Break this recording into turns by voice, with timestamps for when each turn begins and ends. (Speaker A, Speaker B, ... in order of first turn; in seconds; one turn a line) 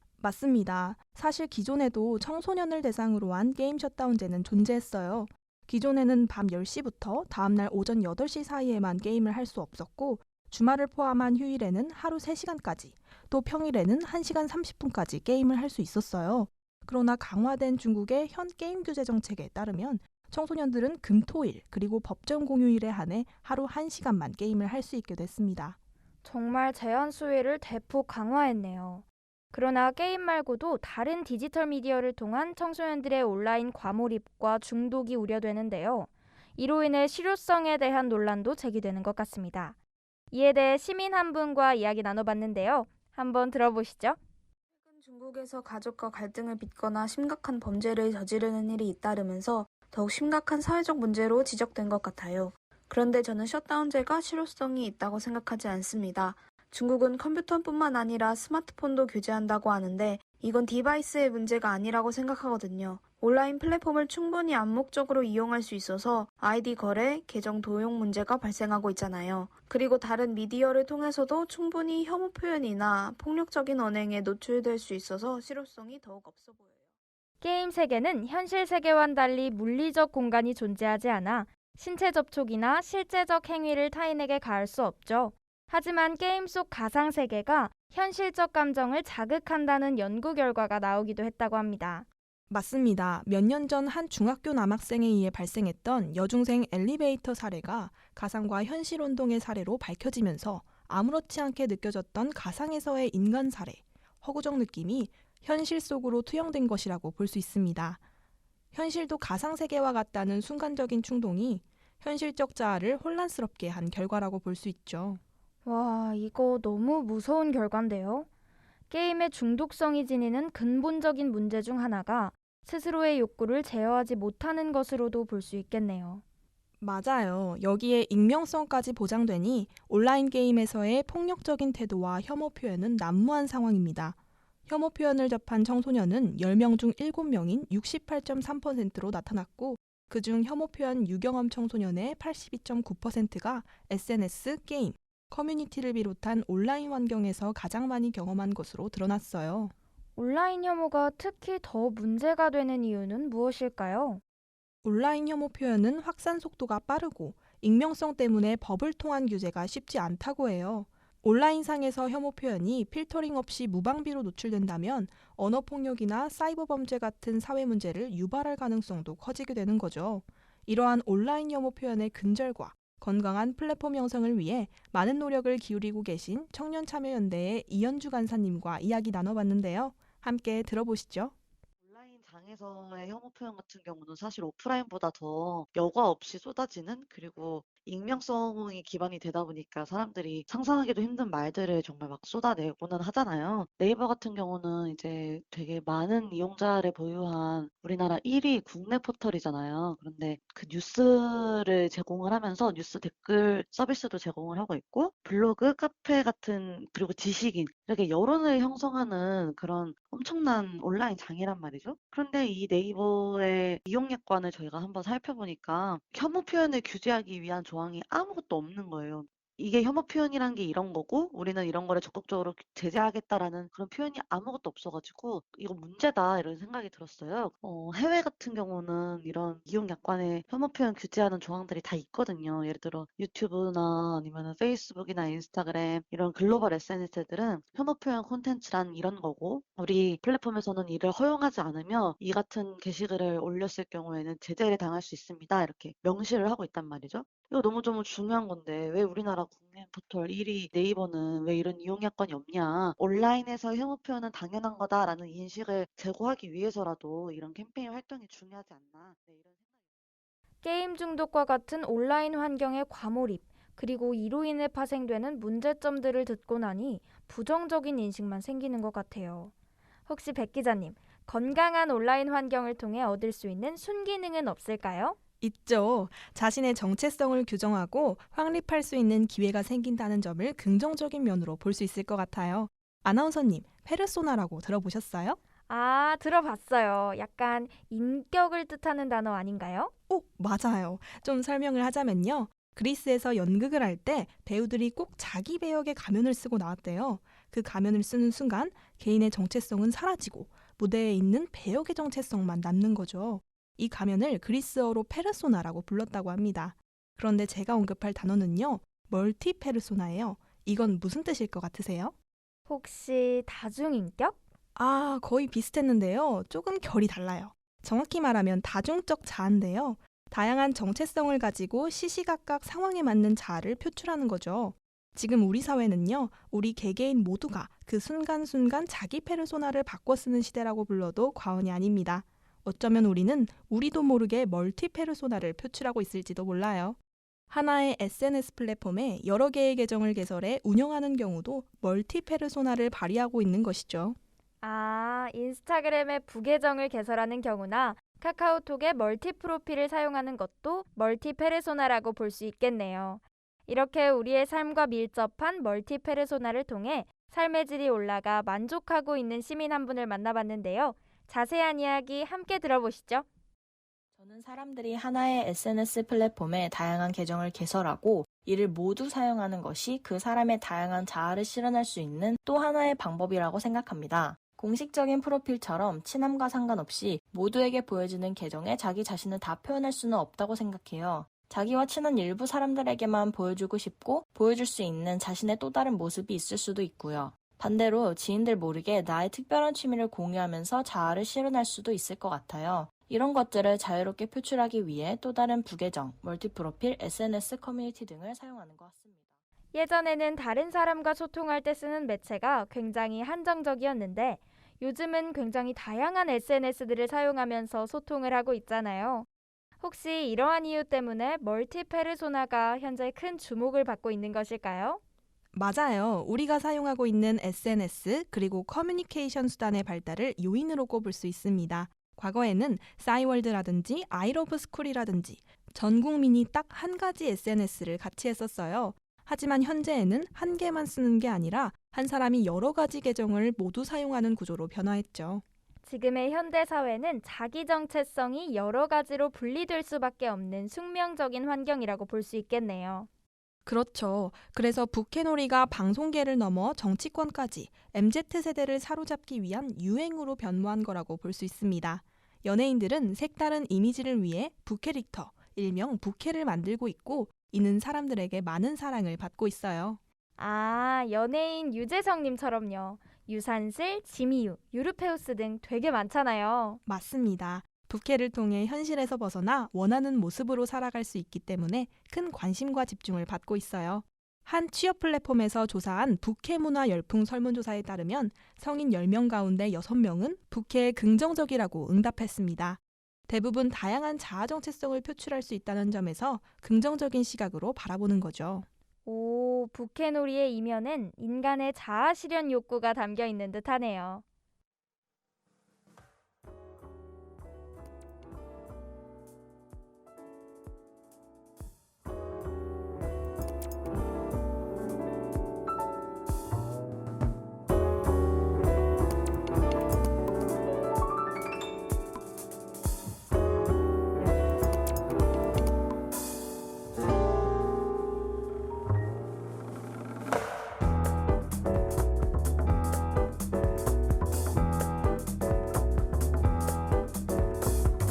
Speaker A: 0.2-25.8
Speaker B: 26.2-39.8
Speaker B: 40.3-44.2
Speaker C: 44.9-76.8
Speaker B: 77.4-92.1
Speaker A: 92.5-108.0
Speaker A: 108.7-115.2
Speaker B: 115.7-118.3
Speaker B: 118.9-126.2
Speaker A: 126.8-149.7
Speaker B: 150.2-154.2
Speaker A: 154.8-181.3
Speaker D: 181.8-259.7
Speaker B: 260.6-269.5
Speaker B: 270.1-275.2
Speaker A: 275.4-285.4
Speaker B: 285.7-289.9
Speaker A: 290.1-312.1
Speaker B: 312.7-314.4
Speaker A: 314.8-337.0
Speaker A: 337.5-344.2
Speaker B: 344.6-363.3
Speaker E: 364.1-399.3
Speaker B: 399.7-409.3
Speaker B: 409.8-415.0
Speaker A: 415.5-435.4
Speaker B: 435.8-443.1
Speaker A: 443.7-460.0
Speaker B: 460.4-466.8
Speaker A: 466.9-488.7
Speaker B: 489.1-494.2